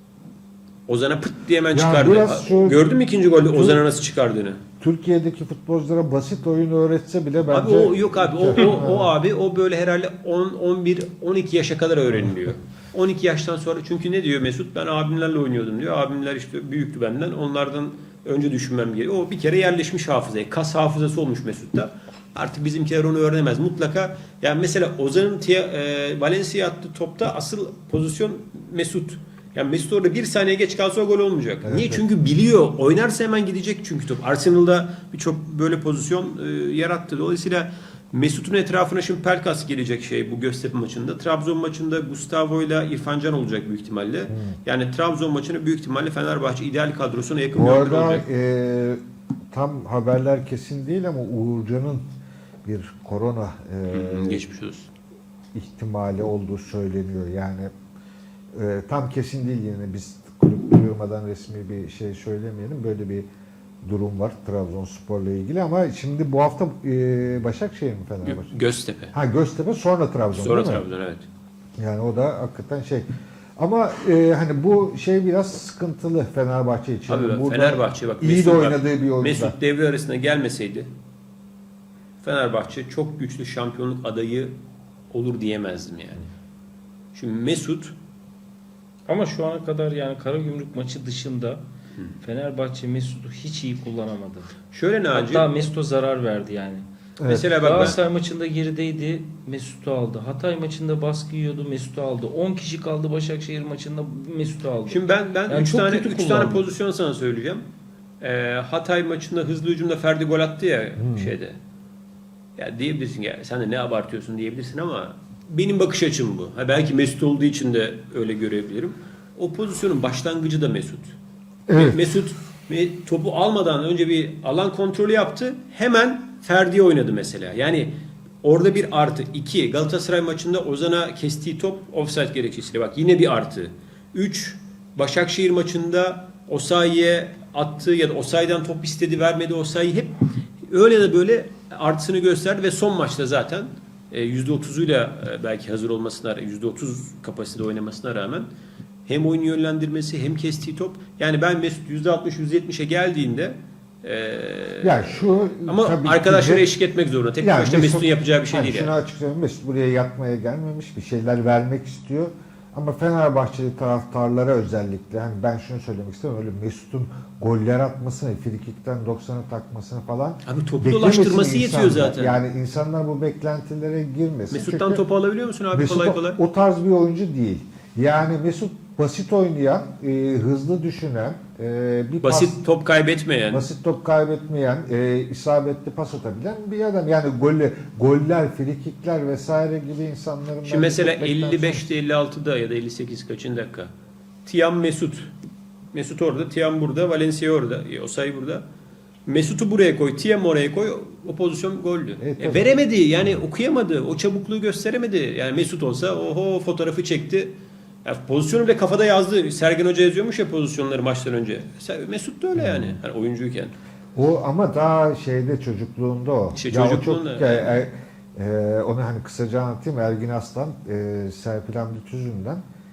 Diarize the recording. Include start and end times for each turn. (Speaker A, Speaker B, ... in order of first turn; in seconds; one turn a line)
Speaker A: 0.9-4.6
Speaker B: 1.7-2.8
Speaker B: 3.5-3.8
Speaker B: 4.8-9.1
Speaker A: 7.5-48.3
Speaker B: 31.6-32.0
Speaker B: 44.3-44.6
Speaker B: 47.5-49.0
Speaker B: 49.5-52.0
Speaker B: 52.6-54.4
Speaker A: 53.9-54.9
Speaker B: 55.5-57.7
Speaker B: 58.5-63.3
Speaker B: 63.8-68.5
Speaker A: 68.2-69.1
Speaker B: 69.1-70.8
Speaker A: 70.3-71.3
Speaker B: 71.8-73.1
Speaker B: 73.6-79.6
Speaker A: 77.1-80.9
Speaker A: 82.2-84.5
Speaker A: 85.1-86.2
Speaker A: 87.1-87.9
Speaker C: 89.1-91.6
Speaker C: 92.2-94.5
Speaker A: 94.7-95.5
Speaker C: 95.1-106.7
Speaker B: 97.2-98.0
Speaker A: 97.3-98.0
Speaker A: 104.9-107.6
Speaker A: 108.2-111.6
Speaker B: 111.0-111.3
Speaker A: 112.6-121.2
Speaker B: 121.7-122.1
Speaker A: 121.7-127.9
Speaker A: 128.4-148.5
Speaker A: 149.1-158.9
Speaker B: 154.8-156.7
Speaker B: 157.4-175.0
Speaker A: 170.4-172.4
Speaker A: 174.5-176.4
Speaker B: 175.7-182.6
Speaker A: 182.2-183.7
Speaker B: 183.5-191.8
Speaker A: 190.7-193.9
Speaker A: 194.4-195.3
Speaker A: 195.9-198.6
Speaker A: 199.3-207.5
Speaker B: 202.2-202.7
Speaker A: 208.1-213.7
Speaker B: 212.6-213.0
Speaker B: 214.2-222.6
Speaker A: 216.5-217.8